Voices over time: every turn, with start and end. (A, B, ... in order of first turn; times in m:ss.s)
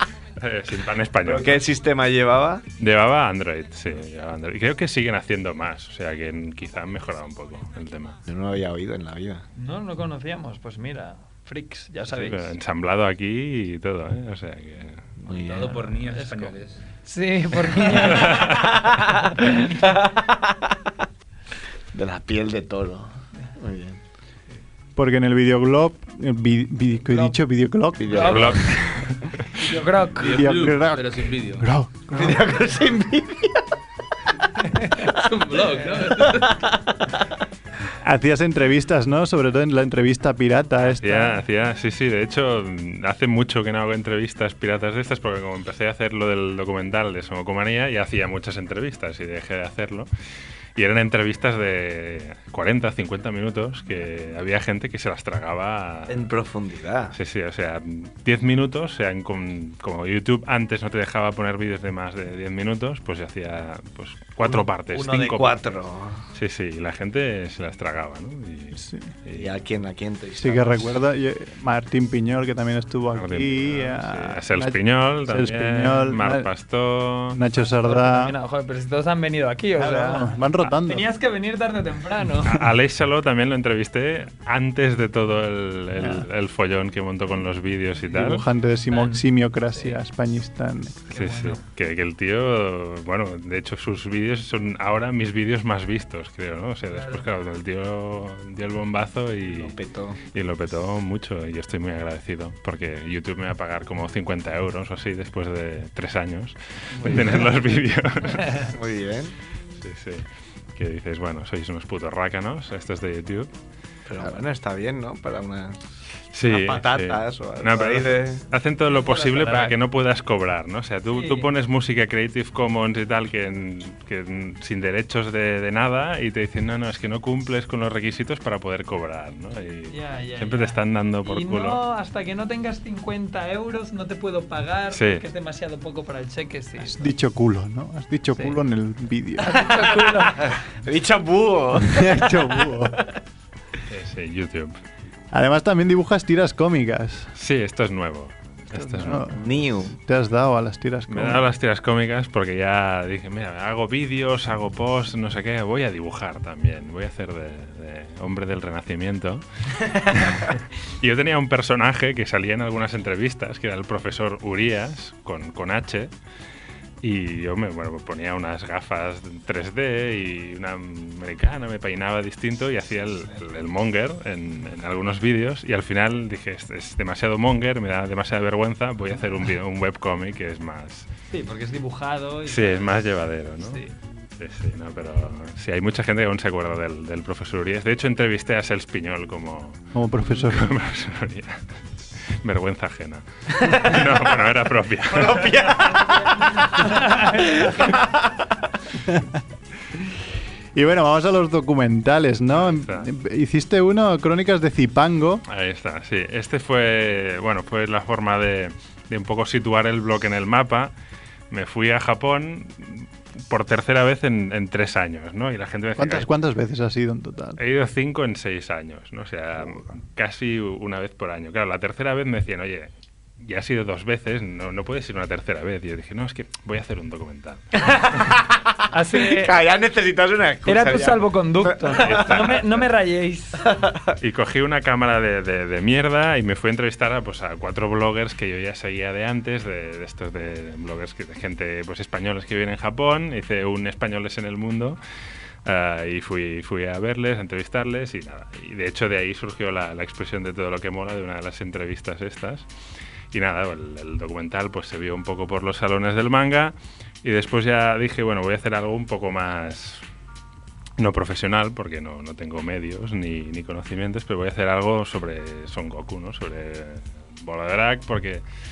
0:00.4-0:01.6 A
0:01.2-0:02.6 B
0:02.8-0:08.2 A
0:08.3-0:09.4 B
0:09.6-0:12.5 C
0:12.1-0:15.1 A
0:15.2-0:16.0 B
0:15.3-0:16.8 D
0:16.1-0:18.6 C
0:17.9-0:18.8 A
0:18.5-0:20.9 B
0:19.4-0:19.8 C
0:21.9-0:24.0 B
0:25.0-0:28.4 E
0:27.1-0:27.4 C
0:28.0-0:28.6 B
0:28.1-0:28.6 C
0:28.2-0:29.3 A
0:29.6-0:30.5 C
0:30.2-0:31.7 D
0:30.2-0:32.4 E
0:32.1-0:33.7 B
0:34.6-0:35.1 C
0:35.2-0:36.6 D
0:35.4-0:37.0 B
0:38.0-0:41.4 E
0:40.9-0:50.1 A
0:50.8-0:56.2 A
0:56.1-0:57.2 B
0:57.1-1:05.6 A
1:04.9-1:06.2 B
1:06.4-1:09.5 A
1:08.8-1:09.1 E
1:09.3-1:10.9 B
1:10.4-1:16.5 E
1:13.1-1:17.4 A
1:17.3-1:18.3 E
1:17.8-1:22.6 C
1:19.8-1:21.1 E
1:22.5-1:28.4 A
1:26.0-1:26.2 E
1:28.1-1:31.1 E
1:28.9-1:29.2 C
1:31.1-1:31.6 C
1:31.1-1:39.8 A
1:36.9-1:37.2 C
1:39.5-1:40.2 B
1:40.3-1:48.7 A
1:48.7-1:49.4 B
1:49.8-1:53.5 A
1:54.1-1:55.9 B
1:56.3-2:11.8 A
1:56.5-1:58.4 B
1:58.9-1:59.8 C
2:01.1-2:01.5 C
2:09.9-2:17.1 C
2:14.9-2:15.2 A
2:16.8-2:19.8 E
2:19.4-2:20.5 C
2:20.0-2:22.8 B
2:21.9-2:23.0 E
2:23.9-2:24.8 A
2:25.3-2:27.3 E
2:27.4-2:29.4 A
2:28.8-2:29.4 E
2:29.4-2:29.9 B
2:29.9-2:31.5 E
2:31.1-2:39.4 A
2:40.0-2:46.1 A
2:47.0-3:01.1 A
3:01.3-3:02.9 C
3:02.5-3:03.8 A
3:03.6-3:03.9 C
3:04.4-3:11.6 A
3:10.0-3:10.6 E
3:12.4-3:15.6 A
3:15.1-3:16.7 B
3:16.8-3:17.9 C
3:17.6-3:18.2 B
3:20.8-3:25.4 E
3:22.5-3:23.1 A
3:25.5-3:30.9 A
3:31.5-3:36.3 A
3:36.0-3:37.6 E
3:37.6-3:47.6 A
3:47.8-3:52.4 B
3:48.9-3:49.6 C
3:50.7-3:53.6 C
3:52.0-3:52.7 A
3:53.6-3:54.1 B
3:54.2-4:05.0 A
4:05.6-4:12.7 A
4:13.3-4:20.0 A
4:21.0-4:28.4 A